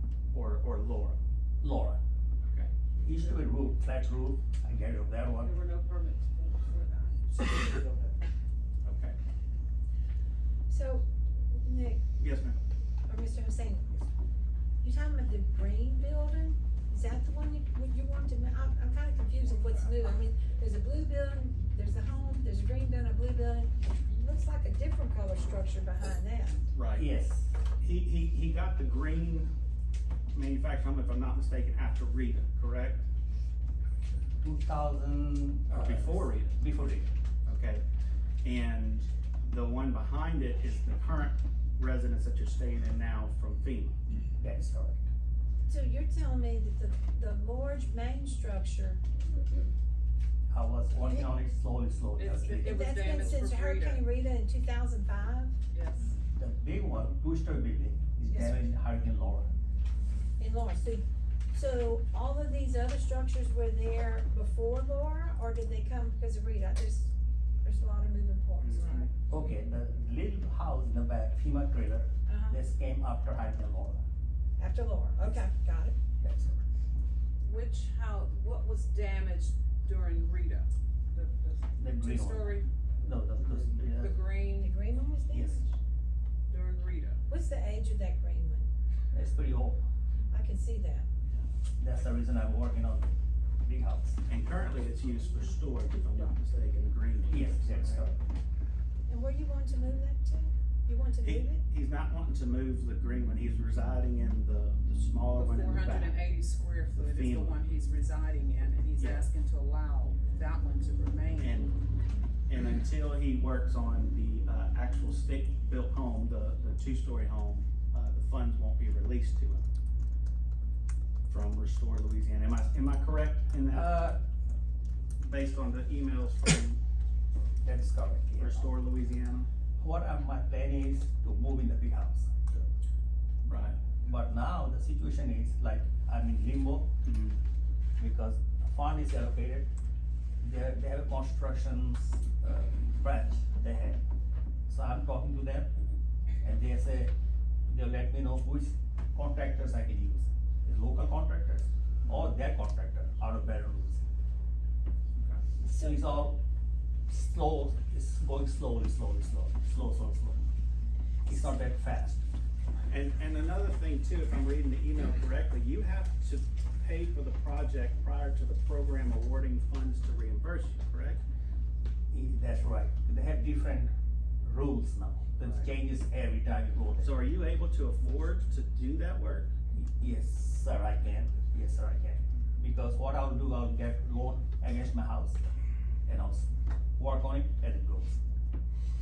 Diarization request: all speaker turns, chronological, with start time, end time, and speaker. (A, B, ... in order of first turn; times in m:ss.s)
0:00.3-0:01.2 A
0:01.6-0:02.0 B
0:03.0-0:05.5 B
0:05.4-0:08.1 C
0:08.8-0:09.2 A
0:10.7-0:12.0 D
0:12.2-0:12.6 A
0:13.1-0:14.0 D
0:14.8-0:26.7 D
0:26.7-0:27.1 A
0:26.9-0:27.5 B
0:27.8-0:29.5 A
0:30.3-0:33.1 A
0:34.4-0:37.1 B
0:35.7-0:36.6 A
0:37.4-0:37.8 A
0:38.4-0:44.0 A
0:44.4-0:45.0 B
0:45.7-0:49.0 D
0:50.5-0:53.3 B
0:51.0-0:51.2 D
0:52.2-0:54.0 C
0:52.4-0:55.6 D
0:55.7-0:56.1 C
0:56.4-0:59.5 B
0:58.3-0:58.6 D
1:00.4-1:07.1 D
1:07.6-1:09.1 D
1:08.6-1:09.1 A
1:09.3-1:14.0 B
1:12.2-1:12.6 D
1:14.6-1:16.0 D
1:16.2-1:16.6 B
1:17.4-1:22.7 C
1:21.8-1:24.2 B
1:23.9-1:24.8 C
1:24.6-1:25.8 D
1:25.3-1:25.6 B
1:26.5-1:27.2 C
1:27.3-1:28.7 D
1:29.1-1:29.8 B
1:30.3-1:31.1 D
1:31.8-1:34.2 B
1:34.3-1:38.1 A
1:37.3-1:38.2 B
1:39.1-1:41.6 D
1:41.2-1:46.3 A
1:45.3-1:51.7 C
1:46.9-1:47.7 A
1:49.0-1:49.3 A
1:51.4-1:51.8 A
1:52.5-1:59.6 A
2:01.3-2:04.2 A
2:03.7-2:04.2 B
2:05.2-2:06.8 A
2:07.6-2:08.6 B
2:08.4-2:09.5 A
2:09.8-2:12.7 B
2:13.4-2:13.8 A
2:13.9-2:16.9 B
2:17.0-2:17.4 A
2:18.0-2:19.7 B
2:20.4-2:24.0 B
2:24.7-2:25.7 B
2:26.4-2:27.1 B
2:27.7-2:34.0 B
2:35.6-2:36.1 D
2:35.6-2:36.4 B
2:37.1-2:40.5 B
2:41.2-2:42.2 B
2:42.9-2:51.2 A
2:52.1-2:57.1 B
2:57.0-2:59.5 A
2:59.7-3:05.4 B
3:06.0-3:08.2 B